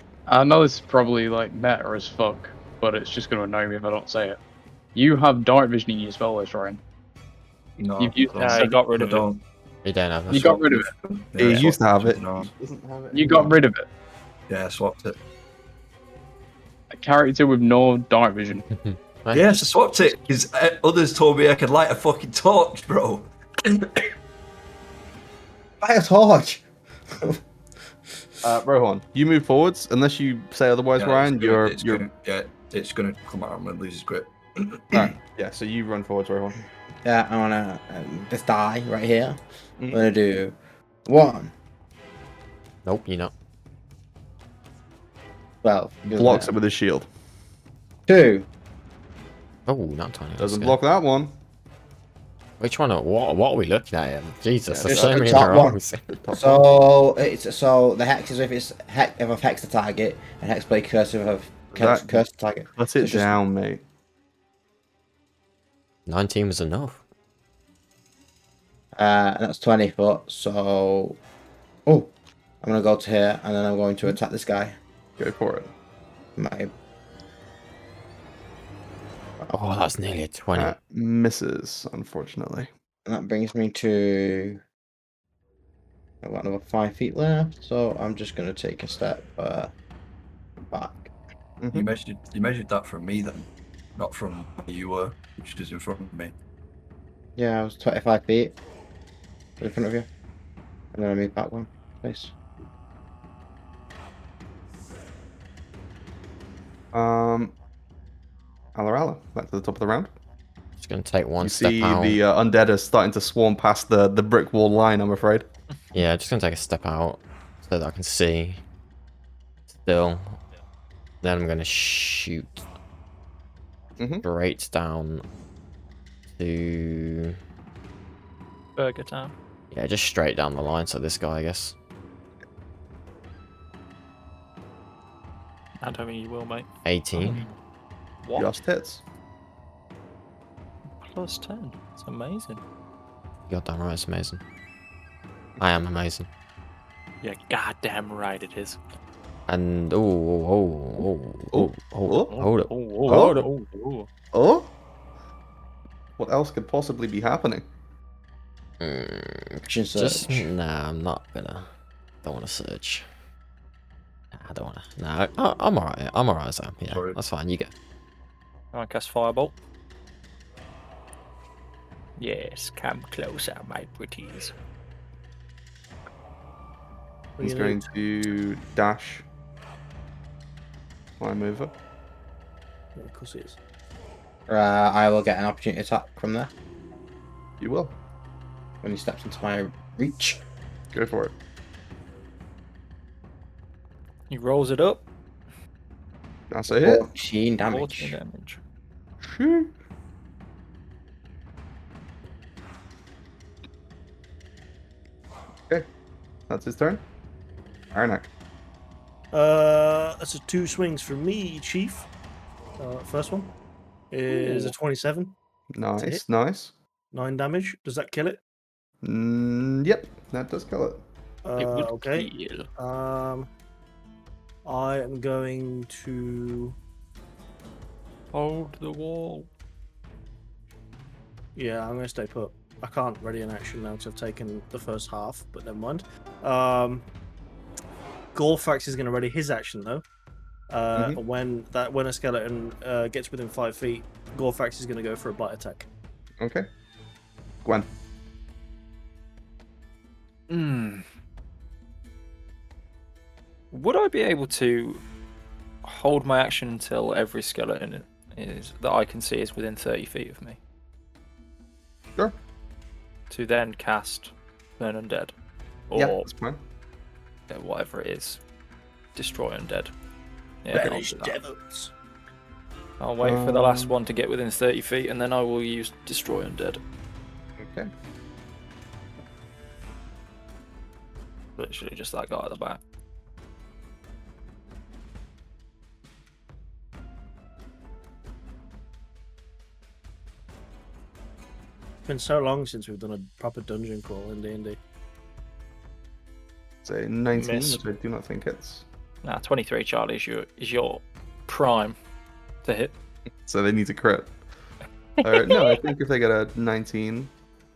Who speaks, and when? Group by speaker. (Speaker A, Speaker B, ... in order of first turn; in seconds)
Speaker A: 0.3-4.4, 4.9-6.8, 8.0-8.8, 10.3-10.9, 13.1-13.9, 16.9-18.6
Speaker B: 7.8-9.4, 11.1-12.5, 14.5-15.2, 19.3-24.1, 31.0-34.9, 91.7-96.3, 166.9-167.2
Speaker C: 8.4-9.3, 128.8-129.3, 135.8-137.5, 138.2-138.5, 141.0-142.6, 147.2-148.8, 152.3-154.1, 168.7-169.6, 172.2-174.5, 194.3-195.0, 197.6-198.6, 221.6-222.7, 228.3-229.5, 250.5-251.1, 253.7-255.0, 255.8-260.6, 263.3-265.3, 265.9-266.3, 267.5-268.4, 269.1-269.9, 270.6-271.4, 273.0-276.8, 281.6-282.8, 299.2-302.0, 302.6-302.9
Speaker D: 9.8-10.8, 18.7-20.1, 42.9-43.3, 49.7-50.8, 52.6-56.0, 66.1-67.0, 79.5-80.8, 110.8-112.2, 115.9-118.6, 119.7-120.4, 121.2-122.6, 124.2-125.2, 126.4-127.4, 129.7-131.8, 136.8-137.4, 143.5-144.4, 145.6-146.3, 149.5-153.5, 158.8-161.7, 162.2-163.1, 164.3-167.7
Speaker E: 11.4-13.6, 28.4-32.0, 34.9-36.6, 46.1-47.1, 50.4-51.4, 54.7-56.7, 61.7-63.8, 75.2-75.7, 80.5-82.7, 91.6-91.9, 106.9-107.5, 108.8-110.1, 111.4-115.5, 124.0-124.2, 138.3-139.0, 151.5-152.3, 153.1-153.4, 154.3-154.7, 156.2-157.7, 177.4-179.2, 181.2-181.7, 187.6-187.9, 190.9-191.3, 196.5-197.1, 199.2-199.7, 206.5-207.0, 207.9-208.3, 215.7-216.7, 219.0-221.0, 240.9-241.2, 246.4-246.7, 265.9-266.6, 273.2-273.9, 277.6-277.9, 296.9-298.9, 303.5-304.3, 305.2-307.3
Speaker F: 25.8-27.4, 37.0-39.4, 39.9-40.5, 41.1-41.5, 45.6-46.5, 48.1-48.5, 54.9-55.8, 56.3-63.4, 69.0-71.2, 71.9-74.8, 76.4-76.7, 83.1-84.6, 86.2-89.7, 90.7-91.1, 97.4-98.5, 99.6-100.1, 100.9-102.3, 159.7-160.5, 184.5-186.5, 188.8-190.4, 196.7-198.2
Speaker G: 177.4-177.9, 182.9-183.6, 209.3-212.1, 212.8-213.5, 214.1-215.3, 217.1-218.4, 221.4-223.5, 224.7-226.8, 231.6-237.1, 238.3-240.0, 240.7-245.9, 270.7-271.9, 292.1-294.8, 297.4-297.8